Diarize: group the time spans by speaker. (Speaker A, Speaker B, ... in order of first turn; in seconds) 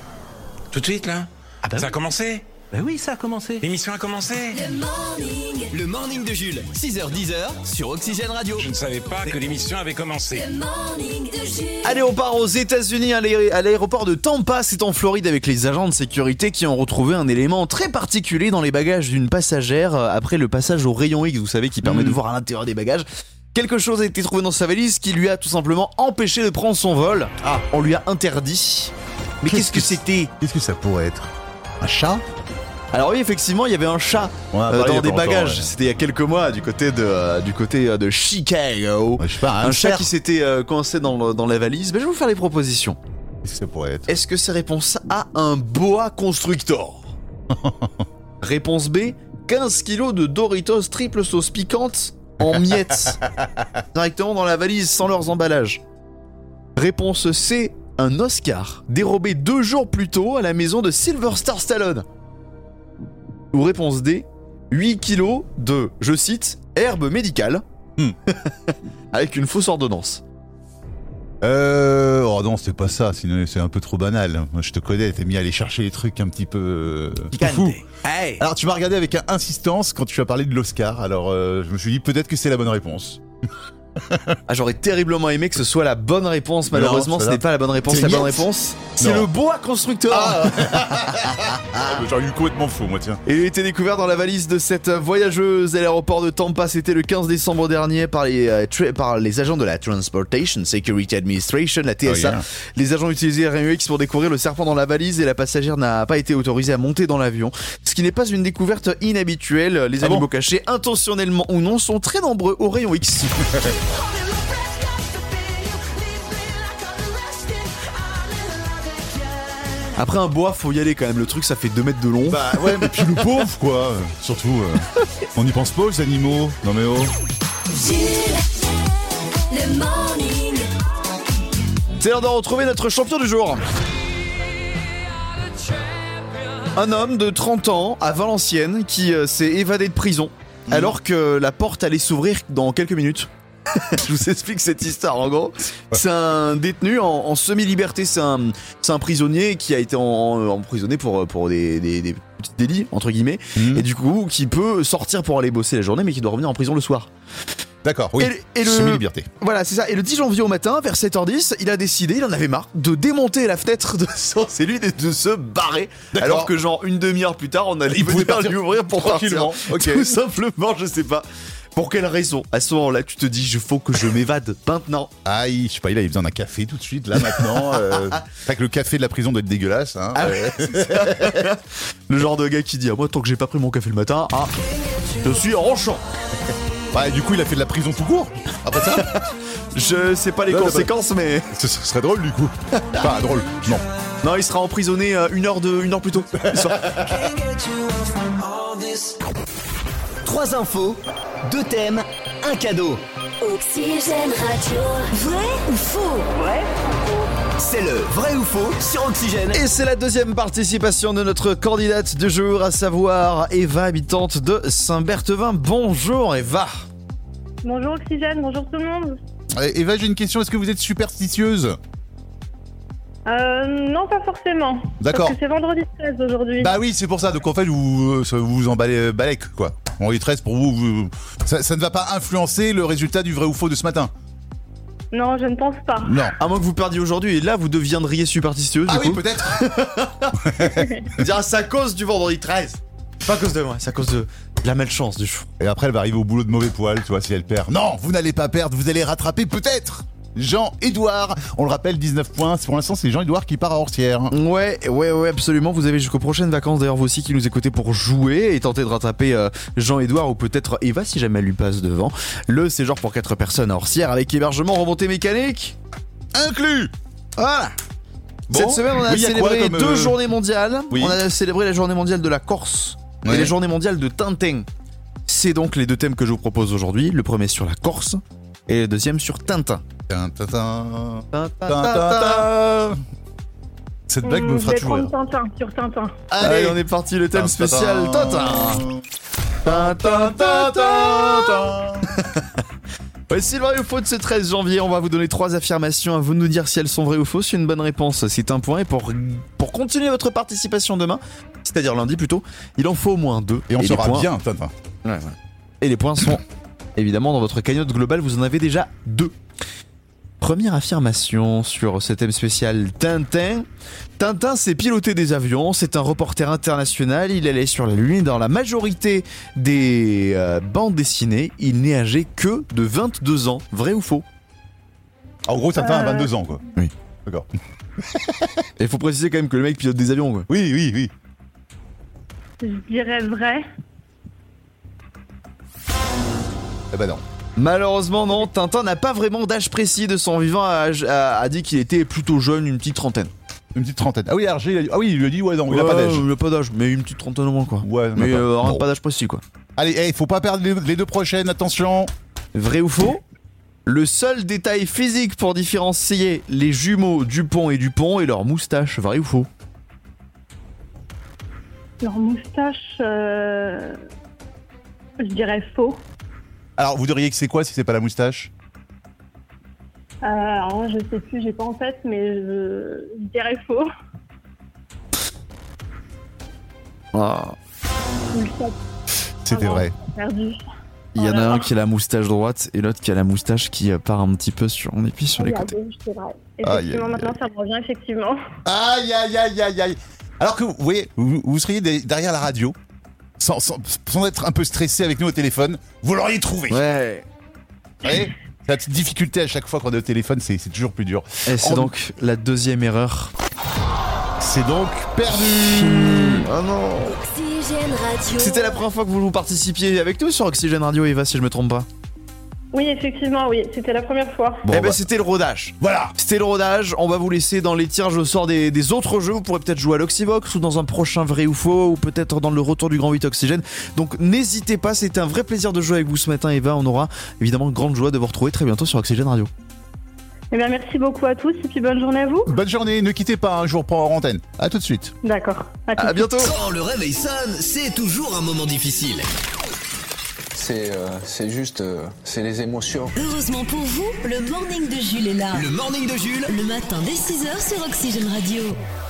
Speaker A: 0.7-2.5, 3.5-4.6, 8.6-10.4
Speaker B: 2.8-3.6, 5.7-8.7, 198.4-199.1, 200.2-203.0, 206.4-206.7, 207.6-209.6, 436.4-439.3, 445.5-446.5
Speaker C: 4.5-5.7, 10.3-12.0, 115.3-117.4, 127.7-128.5, 129.5-130.7, 203.4-206.3, 407.1-408.8, 443.2-445.7, 446.5-448.8
Speaker D: 11.8-30.3, 32.9-43.0, 44.1-47.1, 48.4-53.2, 53.9-55.8, 56.8-62.1, 63.5-67.6, 68.3-70.2, 77.3-78.5, 84.5-91.9, 93.2-113.6, 120.0-122.9, 132.0-133.6, 136.8-157.1, 158.2-175.1, 177.4-178.2, 180.2-184.5, 185.2-186.0, 189.7-191.5, 194.2-197.0, 209.5-216.9, 236.4-240.4, 241.1-245.5, 254.3-265.8, 267.4-267.8, 268.5-274.7, 275.3-279.8, 281.3-282.5, 286.4-288.9, 289.6-291.6, 293.3-304.3, 305.1-306.4, 307.0-309.3, 310.4-313.7, 314.2-324.2, 328.8-330.5, 337.6-343.3, 345.7-349.4, 352.5-353.2, 353.9-359.5, 377.1-377.6, 381.1-385.8, 396.7-397.3, 401.5-403.3, 405.4-407.2, 408.4-411.9, 414.7-429.5, 436.0-436.5
Speaker E: 21.8-22.2, 29.4-31.3, 31.8-32.3, 34.5-35.7, 39.2-40.1, 43.4-44.1, 47.5-48.0, 71.4-77.8, 78.4-83.2, 84.0-84.4, 86.7-89.3, 90.1-93.2, 102.0-102.4, 110.0-110.3, 122.3-127.1, 140.7-140.9, 153.6-153.8, 157.8-159.3, 166.1-166.5, 167.9-170.2, 175.2-181.5, 186.9-189.1, 190.5-190.9, 191.5-193.9, 196.4-197.1, 219.6-221.8, 225.0-225.4, 226.6-234.1, 236.0-236.4, 238.9-239.7, 240.4-240.9, 245.6-254.3, 266.3-266.9, 268.5-270.2, 270.9-271.2, 273.2-273.5, 280.1-283.0, 284.1-285.1, 286.3-286.8, 287.3-289.0, 289.6-292.1, 303.7-304.7, 325.5-326.6, 328.0-328.6, 330.5-331.1, 336.9-337.2, 343.7-346.3, 347.8-348.8, 349.8-352.1, 366.8-368.5, 379.4-379.9, 386.6-387.3, 388.6-392.8, 393.4-396.8, 398.0-401.9, 404.4-406.5, 414.7-415.0, 415.8-416.1, 432.5-435.1
Speaker F: 217.6-219.2, 223.3-226.8, 235.1-236.2, 284.2-286.2, 325.8-326.4, 332.6-333.7, 362.0-364.0, 365.2-366.0, 370.2-373.9, 378.3-378.8, 379.5-380.6, 381.2-381.7, 385.4-388.4, 412.7-414.6, 430.5-432.5, 435.2-436.3
Speaker G: 440.5-443.2